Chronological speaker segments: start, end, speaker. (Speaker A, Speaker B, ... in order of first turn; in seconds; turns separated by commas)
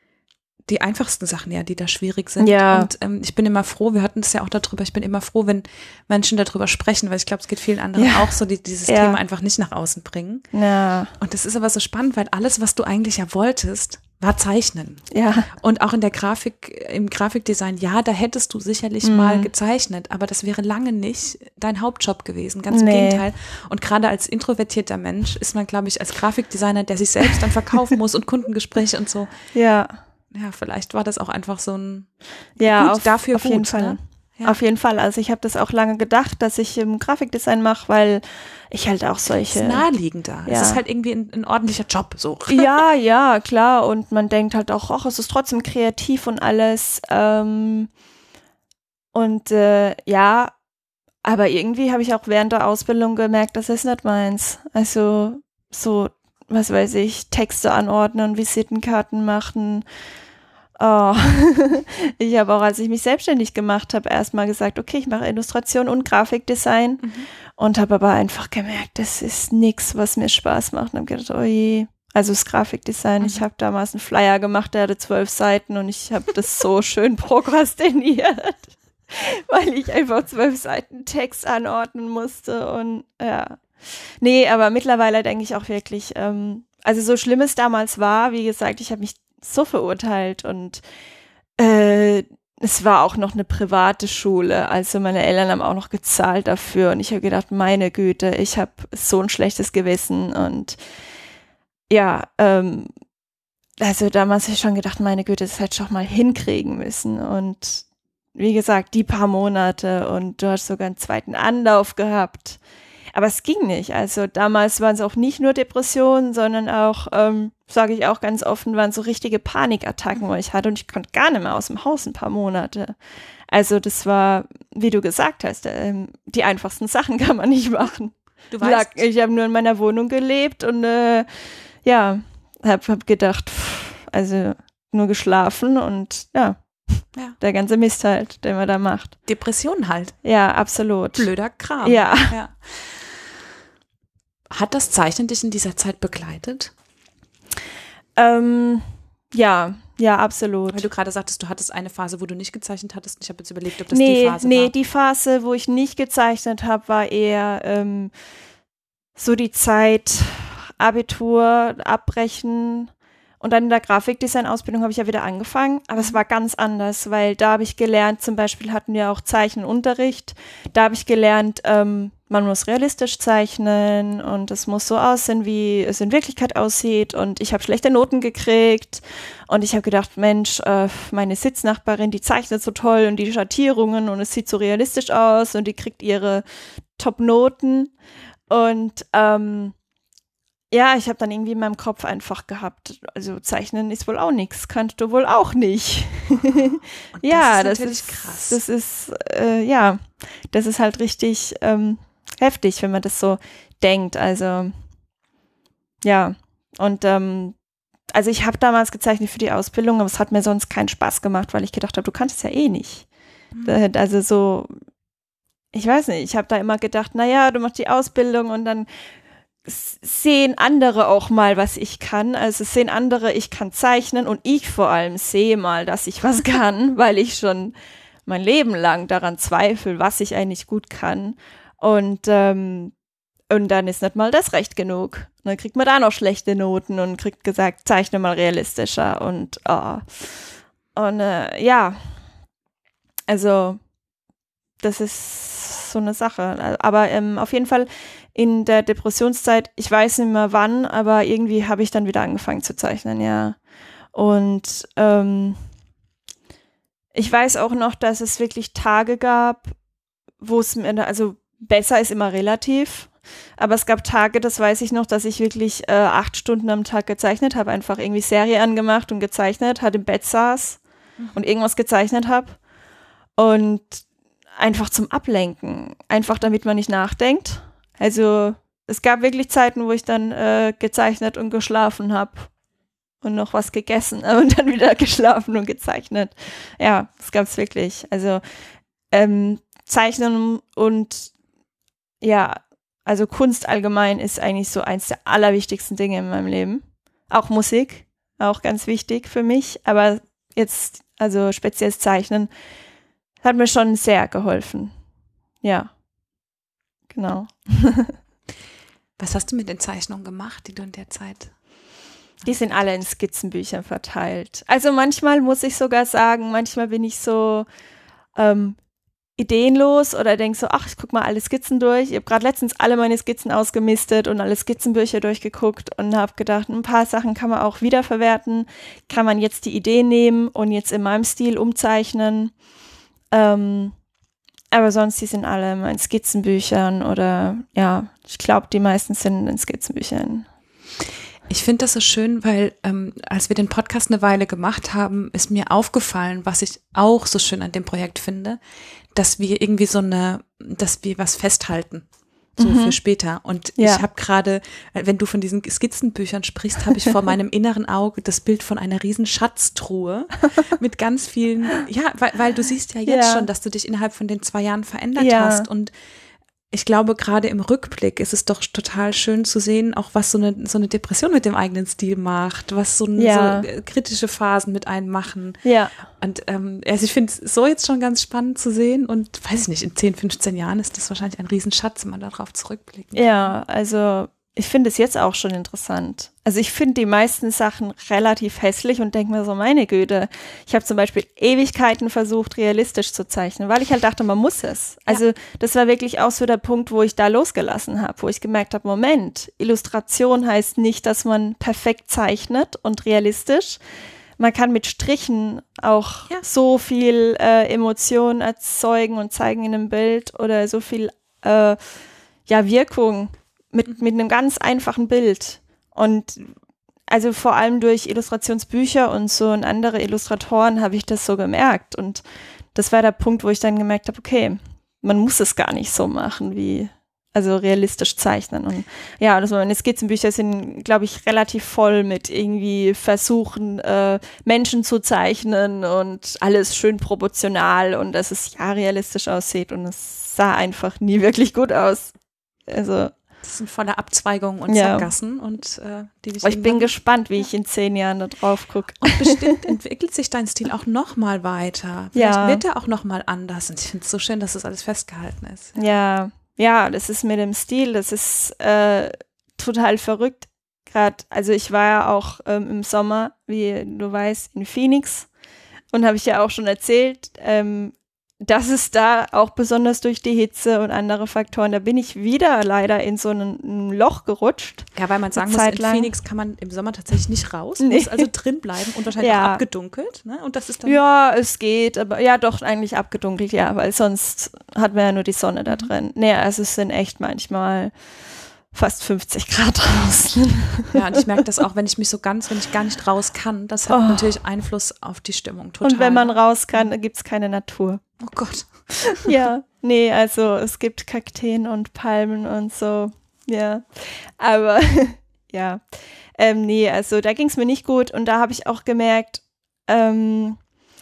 Speaker A: 0.7-10.5, Speaker B: 2.4-2.9, Speaker B: 8.0-9.2, Speaker B: 10.5-11.1, Speaker A: 11.2-29.3, Speaker B: 15.1-15.5, Speaker B: 19.0-19.5, Speaker B: 22.7-23.2, Speaker B: 29.5-30.0, Speaker A: 30.3-34.5, Speaker B: 32.6-39.8, Speaker A: 39.5-42.8, Speaker B: 40.5-40.8, Speaker B: 42.5-47.9, Speaker B: 49.1-50.5, Speaker B: 51.2-59.8, Speaker B: 60.8-90.8, Speaker B: 91.6-100.8, Speaker B: 101.9-102.9, Speaker B: 103.8-112.6, Speaker B: 113.1-123.0, Speaker B: 123.5-131.3, Speaker A: 128.5-129.0, Speaker B: 131.8-139.2, Speaker A: 139.2-140.2, Speaker B: 140.2-141.3, Speaker A: 141.2-143.2, Speaker B: 141.8-142.3, Speaker A: 144.5-146.7, Speaker B: 148.2-150.9, Speaker A: 150.7-154.7, Speaker B: 153.9-158.1, Speaker B: 159.2-162.9, Speaker B: 163.4-186.4, Speaker B: 186.9-187.9, Speaker B: 188.5-189.7, Speaker B: 190.7-204.8, Speaker A: 197.2-198.6, Speaker B: 206.0-207.6, Speaker B: 208.1-213.1, Speaker A: 213.5-213.8, Speaker B: 213.6-214.7, Speaker B: 215.7-218.9, Speaker B: 219.7-227.7, Speaker B: 228.2-232.9, Speaker B: 233.5-240.3, Speaker B: 240.9-242.2, Speaker B: 243.3-243.8, Speaker B: 244.8-253.6, Speaker B: 254.1-255.6, Speaker B: 257.1-259.7, Speaker B: 260.4-270.8, Speaker B: 271.3-272.6, Speaker B: 273.4-274.0, Speaker B: 274.6-282.5, Speaker B: 283.2-288.4, Speaker B: 289.1-291.3, Speaker B: 292.2-302.5, Speaker B: 303.4-304.9, Speaker B: 305.6-305.9, Speaker B: 307.1-308.1, Speaker A: 309.2-311.6, Speaker B: 312.4-317.7, Speaker B: 318.3-318.8, Speaker B: 319.4-332.5, Speaker B: 333.3-333.9, Speaker B: 334.7-340.4, Speaker A: 341.5-348.6, Speaker A: 349.1-352.0, Speaker A: 352.6-365.9, Speaker B: 352.6-353.0, Speaker B: 353.8-354.0, Speaker B: 363.1-363.5, Speaker B: 365.2-365.7, Speaker A: 366.7-383.5, Speaker B: 373.1-373.7, Speaker B: 375.6-375.9, Speaker B: 383.1-403.8, Speaker B: 404.4-411.8, Speaker B: 412.5-416.5, Speaker B: 417.1-422.2, Speaker B: 422.7-442.1, Speaker B: 442.7-443.1, Speaker A: 443.4-446.9, Speaker B: 444.7-445.1, Speaker B: 446.4-449.7, Speaker A: 449.0-455.9, Speaker B: 452.1-452.6, Speaker B: 455.8-465.3, Speaker B: 465.9-476.1, Speaker A: 474.9-481.0, Speaker B: 477.8-478.3, Speaker B: 479.2-479.6, Speaker B: 480.8-487.9, Speaker B: 488.7-490.9, Speaker A: 490.9-496.9, Speaker B: 493.9-494.4, Speaker B: 495.8-498.0, Speaker A: 498.2-499.3, Speaker B: 499.1-505.8, Speaker B: 506.4-510.6